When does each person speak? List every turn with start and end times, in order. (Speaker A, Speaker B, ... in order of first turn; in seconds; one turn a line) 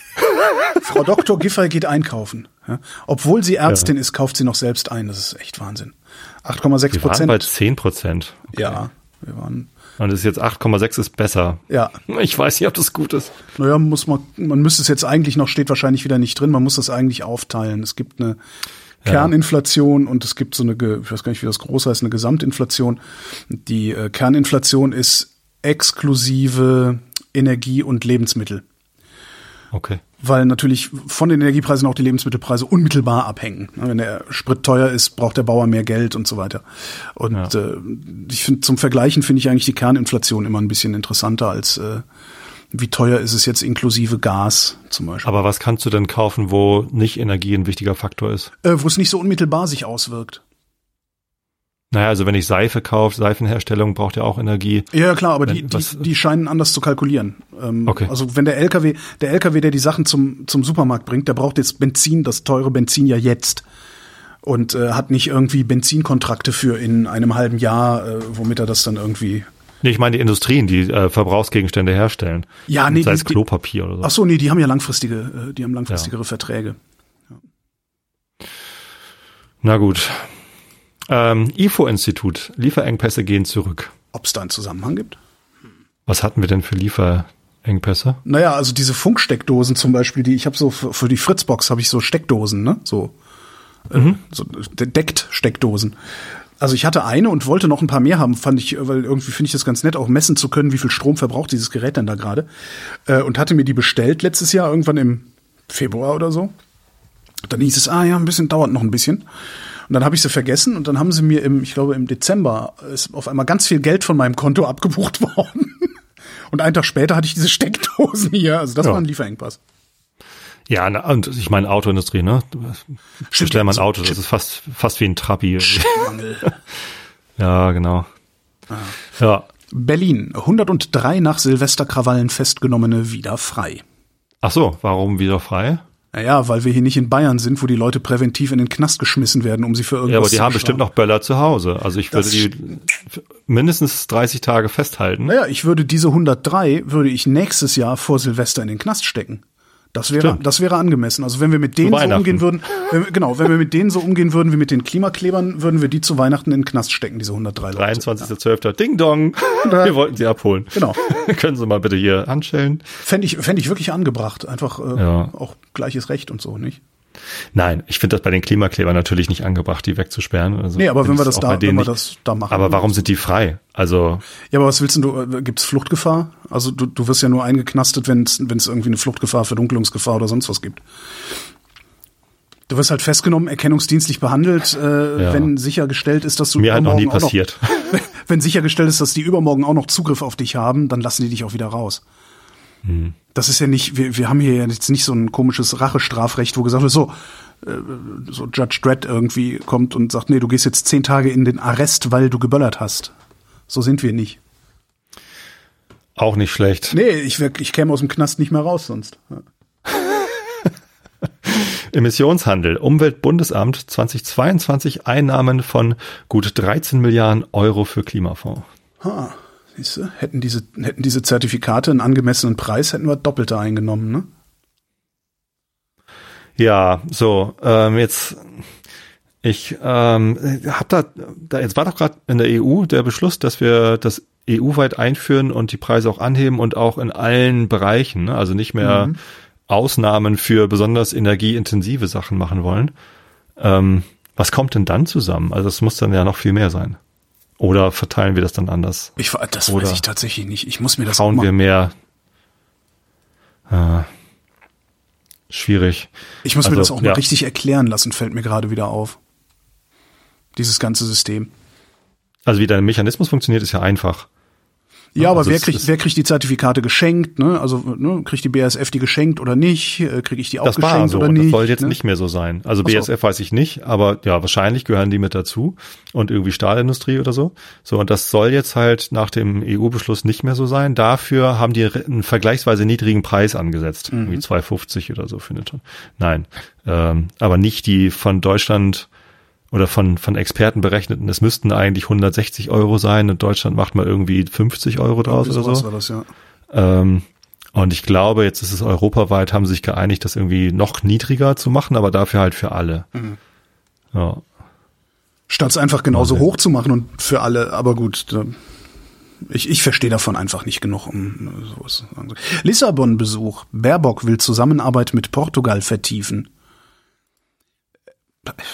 Speaker A: 0.8-7.5
Speaker B: 6.9-8.8
Speaker A: 8.5-9.7
Speaker B: 10.0-13.3
Speaker A: 11.7-12.0
Speaker A: 13.6-18.4
Speaker B: 19.0-19.3
Speaker A: 19.1-28.6
Speaker B: 29.7-30.0
Speaker A: 30.2-36.6
Speaker A: 37.2-42.0
Speaker A: 42.7-45.3
Speaker B: 45.2-48.5
Speaker A: 48.6-50.4
Speaker B: 51.9-54.9
Speaker A: 54.9-63.6
Speaker B: 55.5-56.0
Speaker A: 64.4-69.5
Speaker B: 69.8-74.1
Speaker A: 72.7-73.4
Speaker A: 74.0-76.8
Speaker B: 79.6-80.3
Speaker B: 81.1-83.9
Speaker A: 84.1-85.2
Speaker B: 86.1-88.2
Speaker A: 88.2-93.1
Speaker A: 93.9-96.0
Speaker A: 96.6-102.5
Speaker A: 103.1-106.5
Speaker A: 107.5-109.2
Speaker A: 109.9-116.0
Speaker A: 116.5-119.6
Speaker B: 120.7-122.8
Speaker A: 123.3-124.2
Speaker B: 123.4-126.1
Speaker A: 125.6-126.5
Speaker B: 127.4-128.1
Speaker A: 128.7-129.0
Speaker B: 129.2-129.5
Speaker A: 129.7-133.8
Speaker B: 134.4-135.8
Speaker A: 136.1-140.8
Speaker B: 140.1-145.3
Speaker A: 142.1-142.5
Speaker A: 145.2-149.4
Speaker A: 149.9-158.3
Speaker B: 151.8-152.5
Speaker B: 157.7-162.9
Speaker A: 159.6-160.0
Speaker A: 160.7-161.0
Speaker A: 163.0-166.8
Speaker B: 165.0-165.3
Speaker B: 167.5-171.9
Speaker A: 170.8-173.0
Speaker B: 172.5-174.2
Speaker A: 174.5-180.8
Speaker A: 182.7-192.0
Speaker B: 185.2-185.5
Speaker B: 186.6-187.6
Speaker B: 192.8-193.2
Speaker A: 193.3-203.1
Speaker A: 203.7-204.4
Speaker B: 206.2-207.0
Speaker A: 206.9-209.4
Speaker B: 209.9-210.7
Speaker B: 211.4-218.7
Speaker A: 219.0-224.3
Speaker B: 226.6-228.7
Speaker B: 229.4-239.2
Speaker A: 238.8-239.2
Speaker B: 239.7-242.9
Speaker B: 243.6-247.0
Speaker B: 247.6-249.2
Speaker A: 249.2-251.5
Speaker B: 249.7-250.0
Speaker B: 251.1-251.9
Speaker B: 253.7-254.1
Speaker B: 255.5-256.1
Speaker A: 256.4-259.2
Speaker B: 256.6-257.2
Speaker A: 260.6-261.5
Speaker B: 262.4-264.3
Speaker A: 265.1-272.0
Speaker B: 265.2-265.9
Speaker B: 270.6-289.1
Speaker A: 284.1-284.4
Speaker B: 289.7-295.9
Speaker A: 295.3-296.3
Speaker B: 296.7-303.1
Speaker B: 304.1-304.4
Speaker A: 305.5-308.6
Speaker B: 306.1-306.4
Speaker A: 309.5-316.5